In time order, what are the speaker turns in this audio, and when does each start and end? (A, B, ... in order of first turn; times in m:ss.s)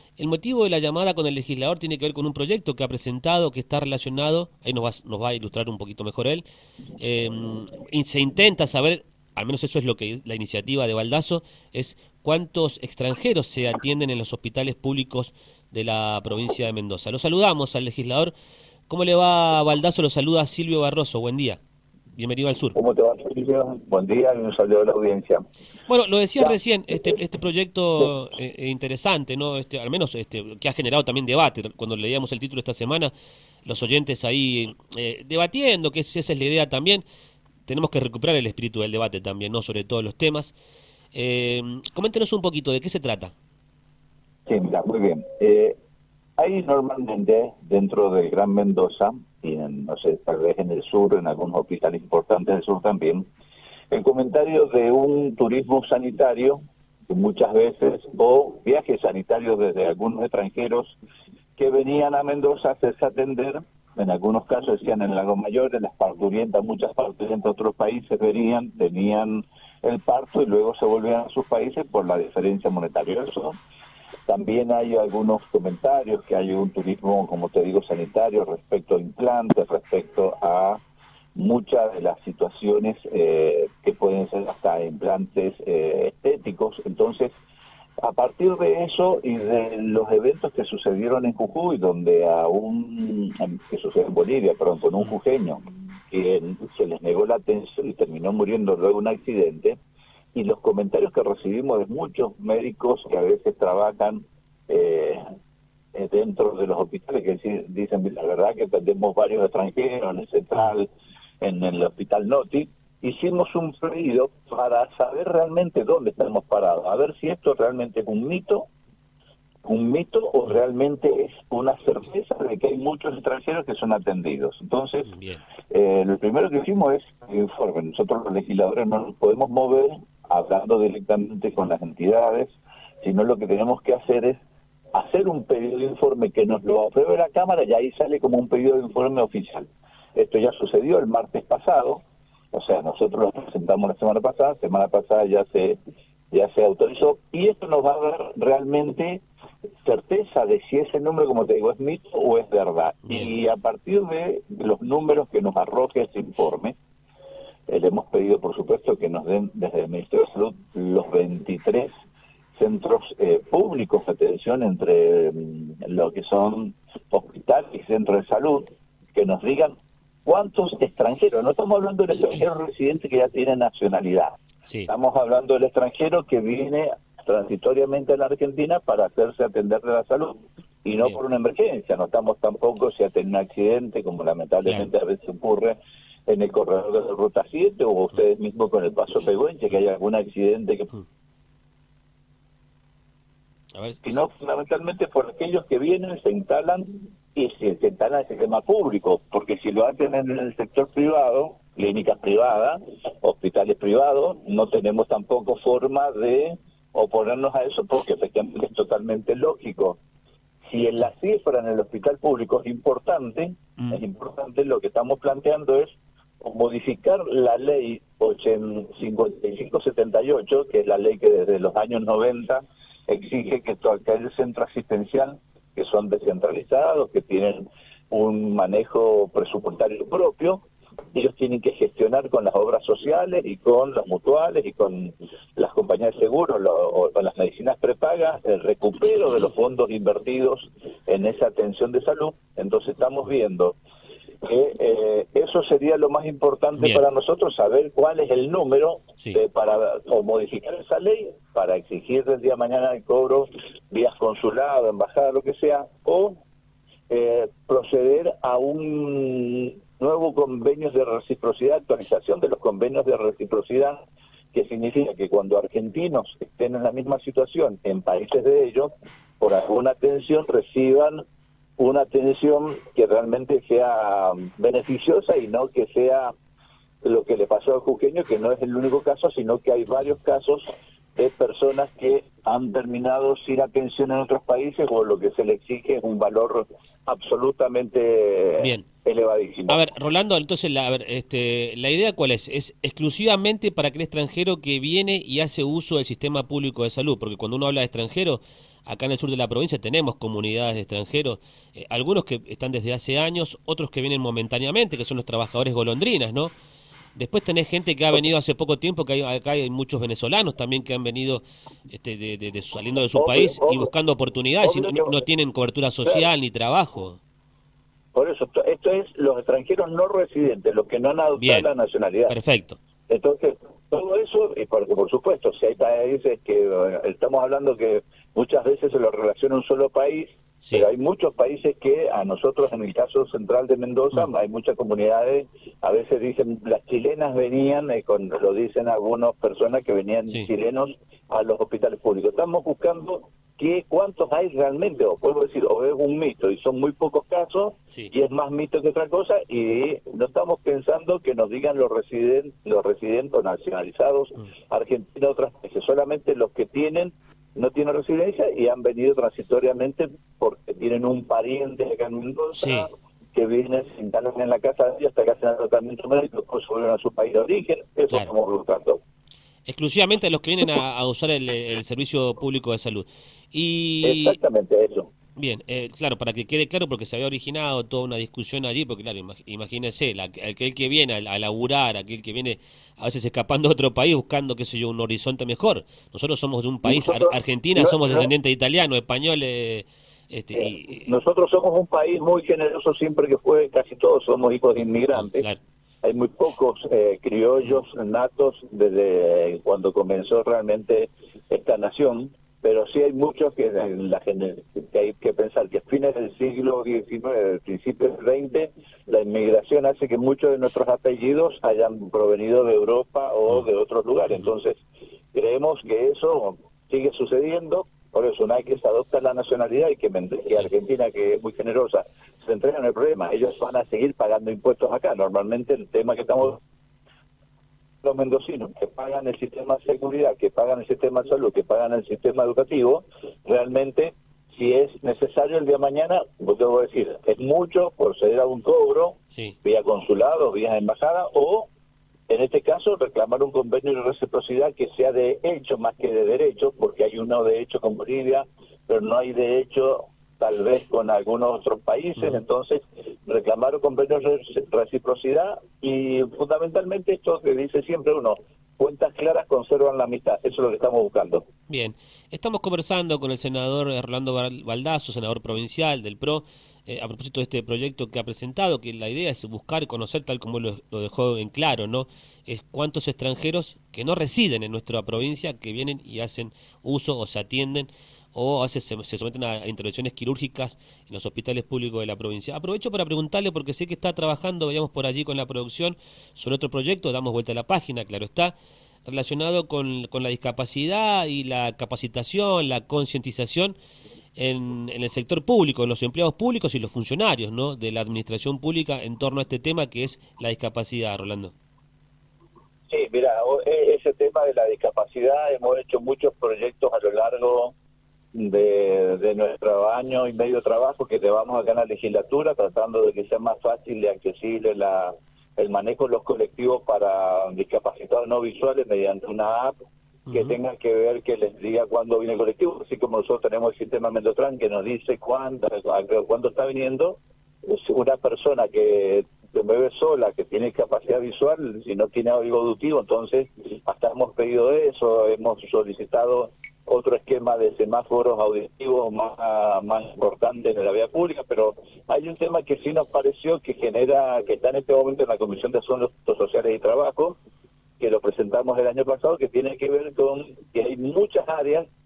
0:00.2-0:06.4 A
0:07.0-0:18.3 A
0:18.9-0:21.6 A
0:22.2-0:22.8 A
0:22.8-0:25.4 B
0:25.9-0:33.1 A
0:26.4-0:27.2 B
0:33.6-0:37.0 A
0:37.7-0:40.6 A
0:41.1-0:43.3 A
0:44.5-0:45.8 B
0:46.4-0:53.2 B
0:53.9-1:01.0 B
1:01.6-1:13.6 B
1:14.3-1:20.8 B
1:21.4-1:27.3 B
1:28.0-1:39.8 B
1:40.4-1:45.2 B
1:45.9-1:50.9 B
1:51.4-1:58.7 B
1:59.6-2:05.1 B
2:05.1-2:05.4 A
2:05.7-2:14.4 B
2:14.9-2:25.8 B
2:26.3-2:29.2 B
2:29.8-2:36.8 B
2:37.7-2:41.9 B
2:42.6-2:54.4 B
2:54.9-3:10.9 B
3:13.8-3:14.1 A
3:14.0-3:30.0 B
3:30.7-4:03.8 B
4:04.4-4:16.4 B
4:06.8-4:07.0 A
4:17.1-4:24.0 B
4:24.5-4:31.2 B
4:31.8-4:36.3 B
4:37.0-4:40.6 B
4:41.2-4:49.8 B
4:48.6-4:48.9 A
4:49.7-5:06.5 A
5:07.2-5:17.2 A
5:13.1-5:13.9 B
5:14.6-5:15.2 B
5:18.1-5:22.4 B
5:21.4-5:21.7 A
5:22.3-5:22.8 A
5:23.1-6:09.0 B
6:02.6-6:02.9 A
6:09.7-6:14.4 A
6:14.0-6:15.1 B
6:15.4-6:31.1 A
6:26.8-6:28.3 B
6:30.5-6:35.5 B
6:35.1-6:35.6 A
6:36.0-6:54.8 B
6:55.3-7:06.6 B
7:08.0-7:21.7 B
7:22.3-7:41.5 B
7:41.7-8:08.5 A
8:09.0-8:13.8 A
8:14.4-8:21.5 A
8:22.9-8:27.7 B
8:28.3-8:39.7 B
8:40.3-8:40.6 A
8:40.3-9:07.4 B
9:08.0-9:11.9 B